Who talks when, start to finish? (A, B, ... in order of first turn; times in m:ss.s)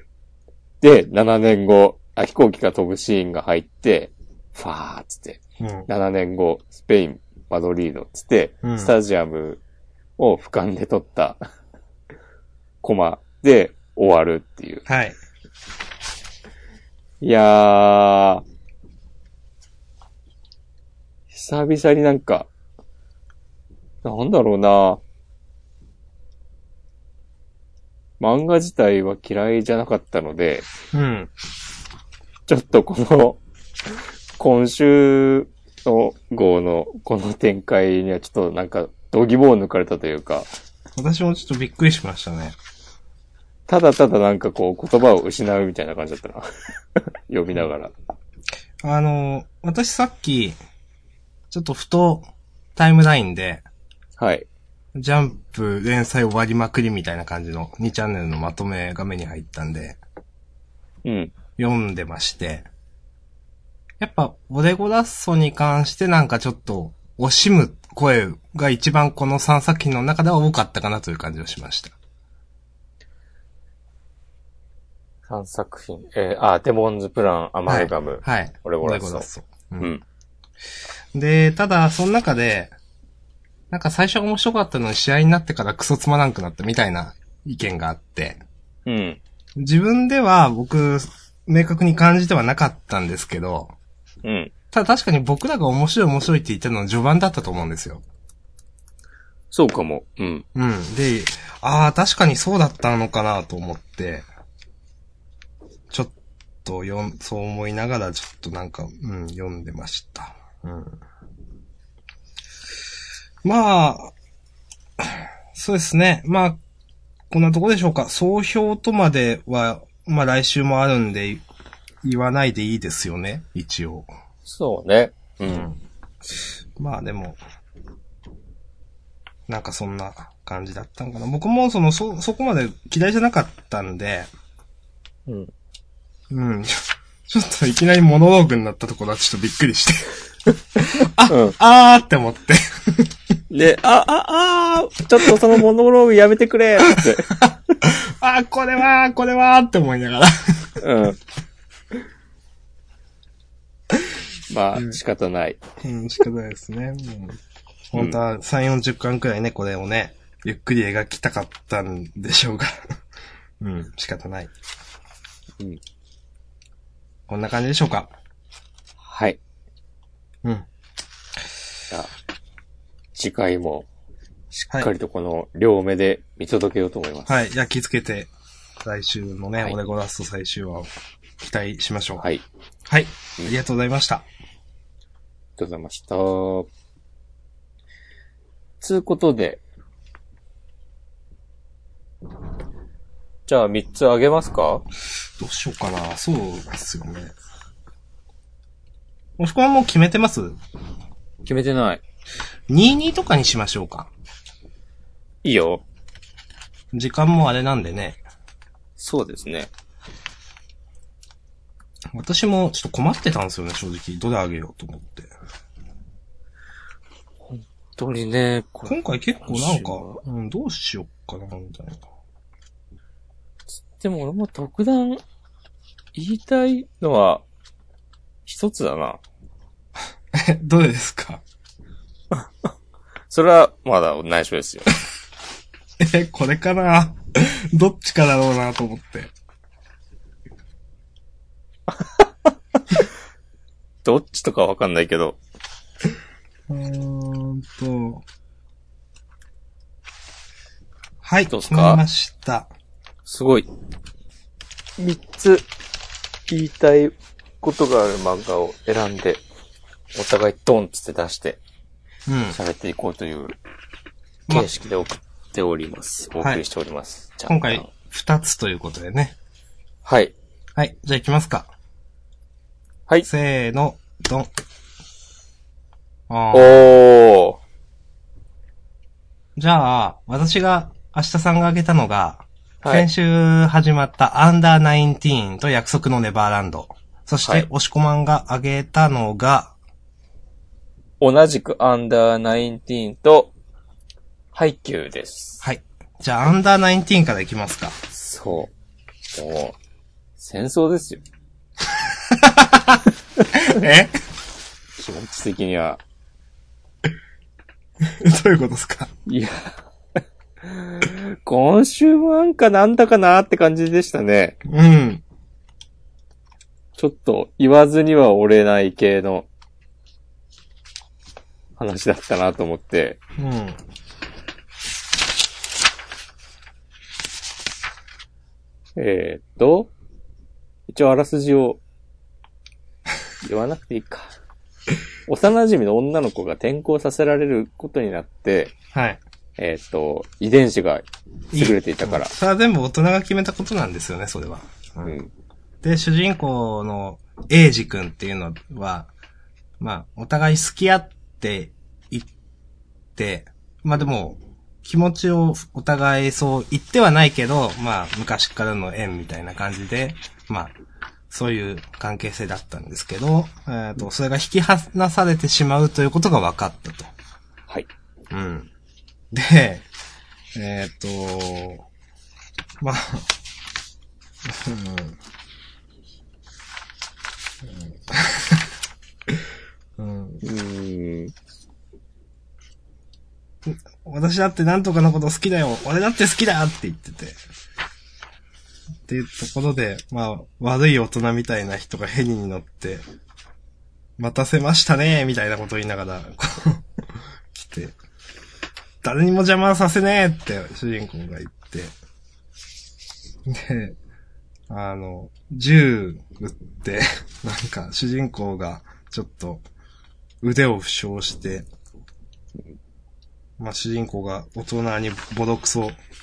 0:00.8-0:09.6 A
0:05.6-0:05.9 B
0:08.6-0:08.9 B
0:10.2-0:11.4 A
0:12.8-0:14.8 A
0:14.9-0:15.2 B
0:17.2-0:18.4 A
0:21.3-0:22.5 A
0:24.0-0:25.0 A
0:28.2-0:30.7 A
0:30.9-0:31.3 B
0:32.5-0:33.4 A
0:34.4-0:40.5 A
0:41.0-0:42.6 B
0:43.7-0:46.5 A
0:47.3-0:47.9 A
0:48.8-0:50.6 B
0:51.5-0:53.6 B
0:54.2-0:54.5 A
0:55.0-1:00.0 B
1:01.0-1:01.3 A
1:01.6-1:02.7 B
1:04.0-1:11.9 B
1:15.3-1:19.3 A
1:17.7-1:19.9 B
1:19.8-1:20.0 A
1:21.1-1:22.8 B
1:23.7-1:28.4 B
1:28.9-1:29.2 A
1:29.6-1:33.7 B
1:34.2-1:34.5 A
1:34.7-1:38.0 B
1:39.5-1:40.4 A
1:40.6-1:44.3 B
1:46.6-1:51.0 B
1:53.4-1:54.1 B
1:55.0-1:56.6 B
1:57.3-2:01.4 B
2:02.0-2:04.1 B
2:04.5-2:05.7 A
2:05.4-2:05.8 B
2:06.8-2:07.4 B
2:09.5-2:14.3 B
2:16.3-2:20.2 B
2:20.8-2:23.1 B
2:21.3-2:21.6 A
2:23.5-2:27.4 A
2:26.9-2:30.8 B
2:30.8-2:31.2 A
2:34.5-2:35.6 A
2:35.8-2:37.4 B
2:37.9-2:42.8 B
2:43.6-2:44.5 B
2:47.3-2:48.1 B
2:49.0-2:49.4 A
2:53.1-2:53.9 A
2:54.5-2:57.4 A
2:57.3-2:58.3 B
2:58.8-3:00.9 B
3:01.4-3:02.2 B
3:02.2-3:02.4 A
3:02.9-3:04.2 B
3:05.6-3:06.7 A
3:08.8-3:09.6 A
3:13.5-3:14.8 A
3:15.4-3:17.3 B
3:19.4-3:20.6 B
3:21.5-3:22.0 A
3:22.7-3:24.1 B
3:25.4-3:25.8 A
3:26.9-3:28.2 B
3:29.0-3:29.7 A
3:32.1-3:35.3 B
3:37.5-3:40.2 A
3:38.9-3:42.0 B
3:43.8-3:45.2 A
3:46.2-3:47.4 A
3:48.5-3:49.2 A
3:50.3-3:51.4 B
3:52.3-3:52.7 A
3:53.3-3:54.9 A
3:56.0-3:59.3 B
4:02.0-4:02.3 A
4:04.0-4:05.4 A
4:06.7-4:08.2 B
4:11.2-4:12.7 B
4:11.5-4:12.0 A
4:13.3-4:13.7 A
4:15.0-4:15.6 A
4:16.5-4:19.4 A
4:20.1-4:21.6 A
4:22.3-4:22.6 B
4:22.5-4:23.6 A
4:24.5-4:27.9 A
4:27.5-4:29.4 B
4:30.0-4:30.4 A
4:30.8-4:31.7 B
4:33.2-4:34.5 B
4:36.3-4:36.9 B
4:36.5-4:37.6 A
4:39.6-4:49.7 B
4:51.2-4:53.5 A
4:54.5-4:55.6 A
4:55.6-4:58.0 B
4:58.1-4:58.7 A
4:59.3-4:59.8 A
5:00.4-5:01.2 A
5:02.3-5:04.1 B
5:05.0-5:06.0 A
5:08.0-5:09.1 B
5:09.3-5:09.8 A
5:10.6-5:14.6 A
5:14.6-5:15.2 B
5:17.0-5:19.5 A
5:21.8-5:23.2 A
5:23.4-5:23.8 B
5:29.0-5:29.9 A
5:30.9-5:31.8 A
5:33.4-5:34.3 A
5:35.3-5:38.8 A
5:38.9-5:39.2 B
5:39.6-5:42.3 A
5:41.5-5:45.2 B
5:45.0-5:45.3 A
5:45.8-5:49.1 B
5:49.8-5:52.3 B
5:53.2-6:00.7 B
6:01.3-6:07.1 B
6:08.3-6:08.7 B
6:09.3-6:09.8 B
6:10.6-6:11.8 B
6:12.8-6:13.3 B
6:14.5-6:15.2 B
6:17.7-6:18.7 B
6:20.0-6:20.4 B
6:20.4-6:21.3 A
6:23.6-6:27.4 B
6:29.1-6:33.0 B
6:34.2-6:36.8 B
6:37.5-6:38.0 B
6:39.0-6:41.9 B
6:43.5-6:44.0 B
6:44.7-6:49.6 B
6:50.4-6:51.7 B
6:53.6-6:56.0 B